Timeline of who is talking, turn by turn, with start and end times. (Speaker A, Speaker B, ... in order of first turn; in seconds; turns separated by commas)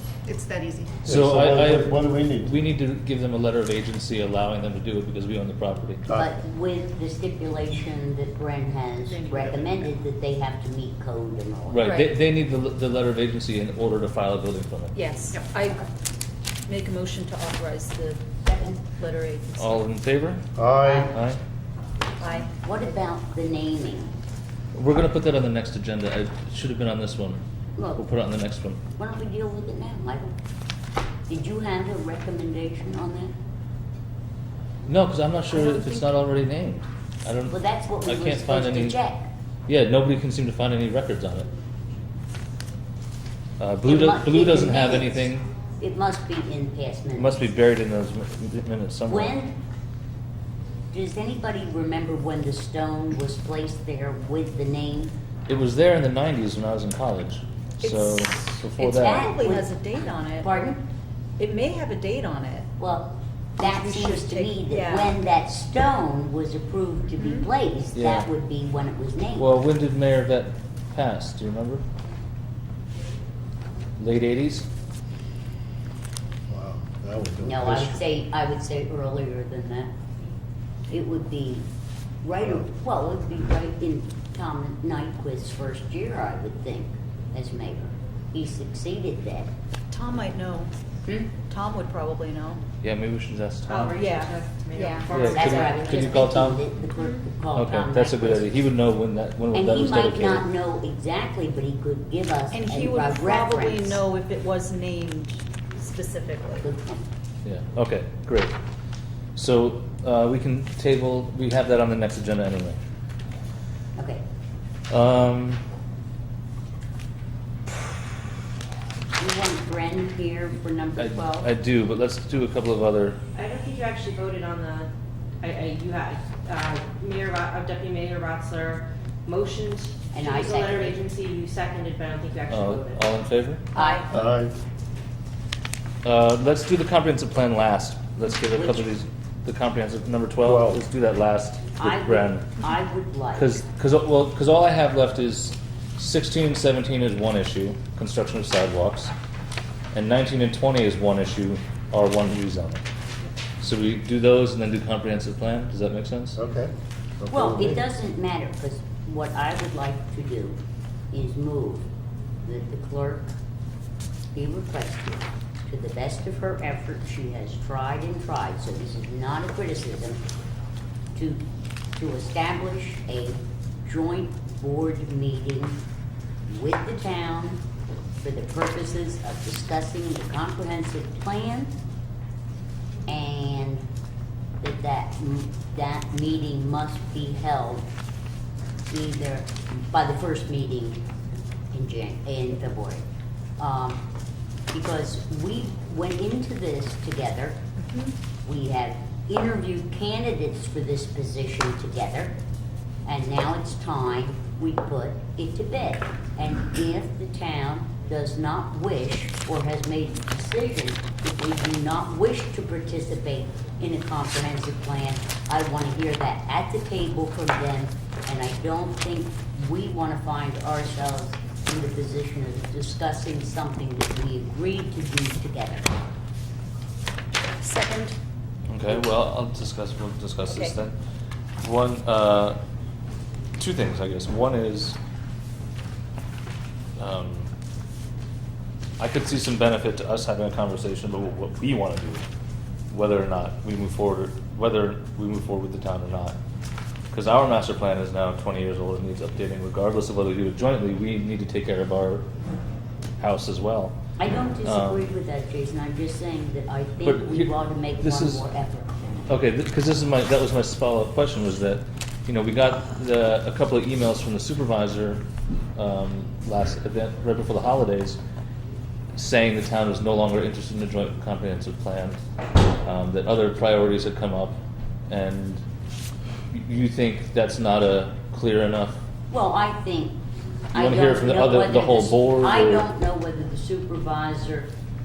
Speaker A: 1.0-2.5, Speaker B: 1.1-6.0, Speaker C: 6.1-11.9, Speaker D: 9.1-9.5, Speaker B: 11.7-15.0, Speaker D: 11.8-12.1, Speaker D: 14.9-15.9, Speaker D: 16.7-18.3, Speaker C: 18.4-18.8, Speaker D: 18.8-19.9, Speaker B: 19.6-20.5, Speaker A: 20.6-21.1, Speaker C: 20.8-21.1, Speaker B: 21.1-21.4, Speaker D: 22.2-22.5, Speaker C: 22.4-24.1, Speaker B: 24.7-27.4, Speaker C: 27.8-28.0, Speaker B: 28.0-28.8, Speaker C: 29.0-30.3, Speaker C: 31.3-33.3, Speaker B: 34.9-39.0, Speaker C: 35.5-36.0, Speaker C: 37.5-39.3, Speaker B: 39.7-41.5, Speaker B: 43.6-45.5, Speaker C: 43.8-47.4, Speaker B: 47.1-49.4, Speaker C: 49.1-49.6, Speaker C: 50.9-55.1, Speaker B: 55.5-59.4, Speaker D: 57.8-60.6, Speaker C: 59.1-60.9, Speaker D: 61.4-62.7, Speaker C: 62.8-69.6, Speaker D: 63.6-65.2, Speaker D: 67.2-67.5, Speaker B: 68.0-68.3, Speaker B: 69.4-71.8, Speaker B: 74.0-74.7, Speaker A: 76.5-78.0, Speaker C: 77.4-79.9, Speaker C: 80.9-81.7, Speaker C: 82.2-89.5, Speaker D: 89.9-90.7, Speaker C: 91.0-91.3, Speaker D: 91.4-92.6, Speaker B: 92.8-93.9, Speaker E: 93.7-96.1, Speaker D: 93.9-95.8, Speaker B: 95.1-96.6, Speaker C: 95.1-98.5, Speaker B: 97.5-100.5, Speaker C: 99.5-104.0, Speaker D: 102.5-106.7, Speaker C: 106.6-107.1, Speaker B: 107.4-108.6, Speaker B: 109.4-112.8, Speaker C: 114.0-114.2, Speaker B: 114.9-115.6, Speaker C: 119.2-121.5, Speaker B: 121.0-123.2, Speaker E: 123.3-124.9, Speaker E: 125.4-133.0, Speaker C: 130.1-131.0, Speaker B: 132.5-134.3, Speaker E: 133.8-134.0, Speaker D: 133.8-134.1, Speaker A: 134.1-134.5, Speaker B: 136.0-142.5, Speaker C: 138.4-138.9, Speaker A: 140.4-140.8, Speaker C: 141.8-143.6, Speaker B: 143.4-149.1, Speaker B: 149.9-152.8, Speaker B: 153.6-156.4, Speaker A: 156.4-157.8, Speaker C: 157.3-160.6, Speaker C: 161.1-161.9, Speaker C: 162.4-163.3, Speaker C: 164.3-170.2, Speaker C: 171.1-171.4, Speaker C: 172.0-175.8, Speaker C: 176.5-177.6, Speaker C: 178.2-181.7, Speaker C: 183.1-183.8, Speaker C: 184.6-187.9, Speaker C: 188.9-191.0, Speaker C: 191.7-193.0, Speaker C: 193.6-194.0, Speaker C: 194.7-197.6, Speaker C: 198.4-202.4, Speaker C: 203.1-225.9, Speaker D: 227.5-228.1, Speaker B: 228.7-231.0, Speaker D: 230.5-230.8, Speaker B: 231.6-232.6, Speaker B: 233.6-235.0, Speaker B: 237.0-237.5, Speaker B: 239.0-242.3, Speaker B: 242.9-246.4, Speaker B: 247.1-252.3, Speaker B: 253.2-254.0, Speaker C: 254.2-259.2, Speaker B: 254.6-255.1, Speaker B: 257.0-258.4, Speaker B: 259.3-268.2, Speaker B: 269.1-272.2, Speaker B: 272.8-275.6, Speaker B: 276.5-279.1, Speaker C: 279.3-284.7, Speaker B: 280.7-282.9